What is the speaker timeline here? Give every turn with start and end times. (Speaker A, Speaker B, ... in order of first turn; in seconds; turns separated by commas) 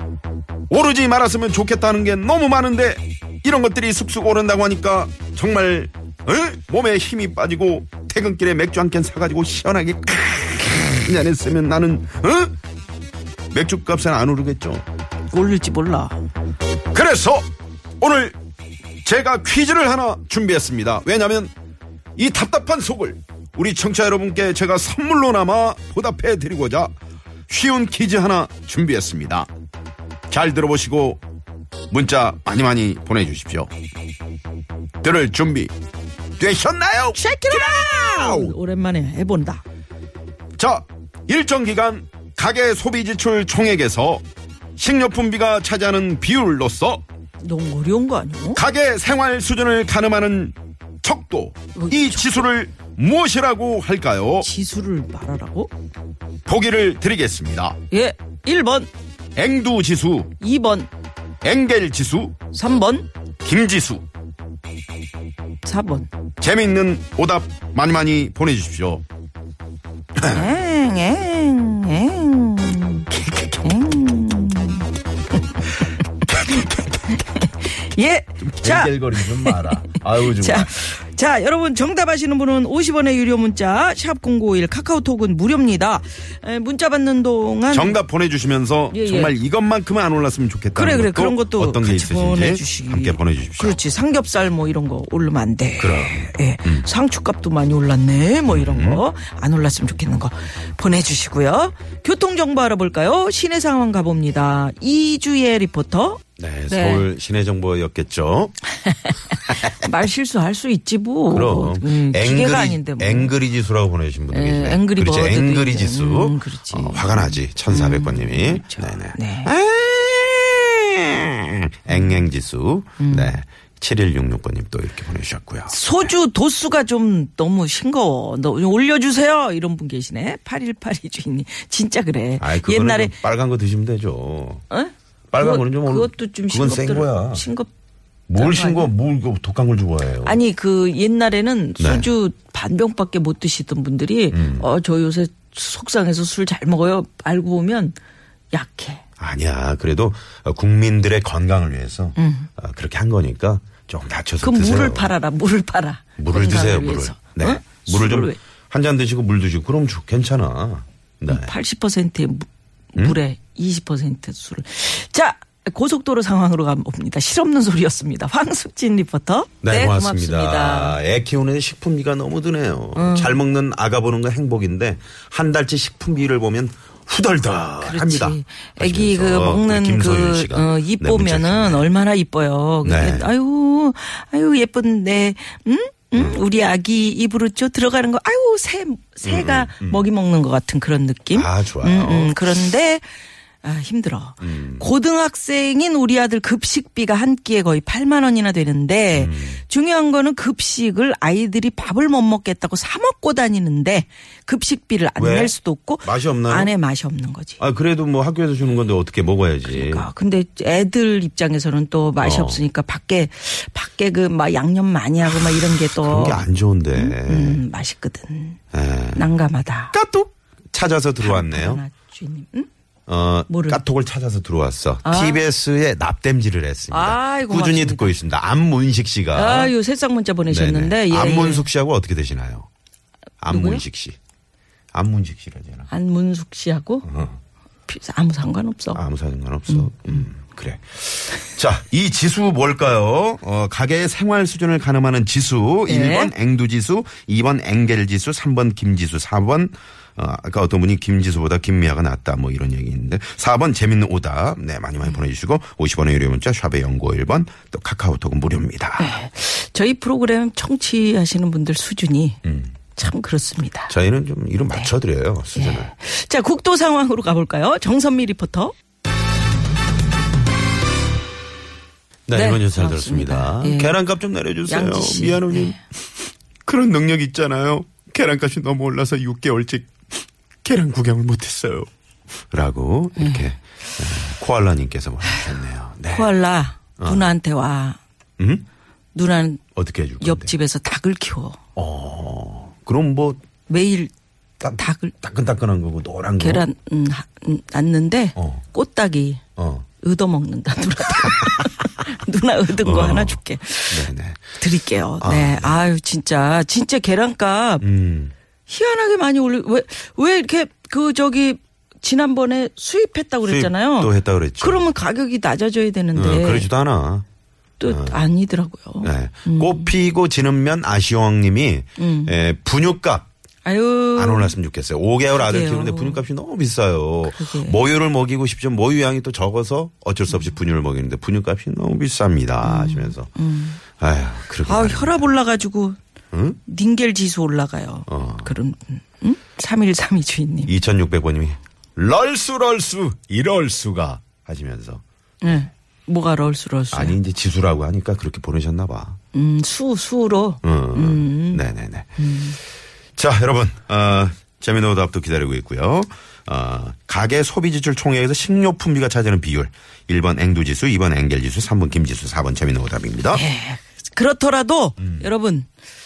Speaker A: 0.7-12.5, Speaker A: 13.5-14.8, Speaker B: 15.3-16.2, Speaker A: 16.9-17.4, Speaker A: 18.0-18.4, Speaker A: 19.0-21.5, Speaker A: 22.2-26.9, Speaker A: 27.5-29.5, Speaker A: 30.3-31.2, Speaker A: 31.9-33.7, Speaker A: 35.0-35.7, Speaker A: 36.4-38.6, Speaker B: 37.2-39.6, Speaker A: 40.6-44.2, Speaker A: 44.8-47.0, Speaker B: 47.4-48.6, Speaker A: 48.5-54.5, Speaker B: 51.8-52.4, Speaker B: 54.4-55.7, Speaker A: 56.5-57.8, Speaker B: 57.9-58.9, Speaker A: 59.4-60.3, Speaker B: 60.4-60.9, Speaker A: 61.4-62.4, Speaker B: 62.5-63.1, Speaker A: 63.4-64.0, Speaker B: 65.6-66.1, Speaker A: 66.4-69.0, Speaker A: 70.2-70.5, Speaker B: 70.3-74.9, Speaker B: 76.3-88.0, Speaker A: 76.3-76.9, Speaker A: 78.4-80.7, Speaker A: 87.7-93.8, Speaker B: 88.9-89.3, Speaker B: 90.8-107.1, Speaker A: 95.8-96.9, Speaker A: 98.5-99.0, Speaker A: 106.4-108.6, Speaker B: 108.9-113.3, Speaker A: 111.3-125.8, Speaker B: 114.3-119.5, Speaker B: 121.9-122.2, Speaker B: 123.0-123.4, Speaker B: 125.7-133.2, Speaker A: 132.4-134.6, Speaker B: 134.7-137.7, Speaker A: 135.3-137.5, Speaker A: 138.3-140.4, Speaker B: 138.3-138.9, Speaker B: 140.2-148.0, Speaker A: 141.8-142.1, Speaker A: 144.3-144.7, Speaker B: 148.5-149.0, Speaker A: 149.2-155.1, Speaker B: 152.2-152.5, Speaker B: 154.4-158.4, Speaker A: 156.2-161.5, Speaker B: 161.3-171.0, Speaker A: 169.6-181.9, Speaker B: 172.9-173.4, Speaker B: 177.8-193.1, Speaker A: 182.8-183.3, Speaker A: 186.1-186.4, Speaker A: 189.2-190.1, Speaker A: 191.3-192.4, Speaker B: 193.6-207.6, Speaker A: 194.4-194.9, Speaker A: 199.1-199.6, Speaker A: 205.2-206.7, Speaker A: 207.6-210.1, Speaker B: 209.7-218.6, Speaker A: 212.2-212.6, Speaker A: 215.6-217.6, Speaker A: 218.7-219.3, Speaker B: 219.1-219.9, Speaker A: 219.9-221.8, Speaker B: 221.2-222.7, Speaker A: 223.1-229.7, Speaker B: 223.5-223.8, Speaker B: 225.1-225.4, Speaker B: 226.9-228.2, Speaker B: 229.3-231.7, Speaker A: 230.5-232.7, Speaker A: 233.4-234.2, Speaker B: 233.5-233.8, Speaker A: 234.9-235.9, Speaker B: 235.9-237.1, Speaker A: 237.1-237.4, Speaker B: 237.9-239.0, Speaker A: 238.9-259.2, Speaker B: 239.7-240.2, Speaker B: 245.9-246.3, Speaker B: 259.0-262.4, Speaker A: 262.4-262.8, Speaker B: 262.9-263.9, Speaker A: 263.9-265.9, Speaker B: 265.5-268.7, Speaker A: 272.3-275.8, Speaker B: 272.3-274.0, Speaker B: 274.7-275.8, Speaker A: 276.6-280.1, Speaker A: 280.6-281.9, Speaker A: 282.5-286.3, Speaker B: 283.2-283.5, Speaker B: 286.1-288.0, Speaker A: 287.0-287.3, Speaker A: 288.4-288.6, Speaker B: 289.1-289.6, Speaker A: 289.8-290.5, Speaker B: 290.2-291.6, Speaker A: 291.8-293.4, Speaker B: 293.7-294.1, Speaker A: 294.6-296.7, Speaker B: 294.7-295.2, Speaker B: 296.4-299.4, Speaker A: 298.4-298.6, Speaker A: 299.6-299.9, Speaker B: 300.0-307.9, Speaker A: 302.8-304.6, Speaker A: 305.2-305.8, Speaker A: 307.8-308.3, Speaker B: 308.7-316.7, Speaker A: 313.4-314.9, Speaker A: 316.1-317.2, Speaker B: 317.8-319.9, Speaker A: 317.9-318.2, Speaker A: 319.0-323.3, Speaker B: 322.0-322.4, Speaker B: 323.6-324.5, Speaker A: 324.1-333.3, Speaker B: 325.4-326.2, Speaker B: 327.3-327.8, Speaker B: 332.6-333.8, Speaker A: 334.0-335.3, Speaker B: 334.7-336.0, Speaker A: 336.3-336.6, Speaker B: 336.7-340.8, Speaker A: 338.1-338.5, Speaker A: 340.7-345.6, Speaker B: 345.4-347.2, Speaker A: 346.9-349.2, Speaker B: 349.3-351.6, Speaker A: 350.6-352.2, Speaker B: 352.2-352.6, Speaker A: 353.2-363.4, Speaker B: 363.3-365.7, Speaker A: 365.0-365.3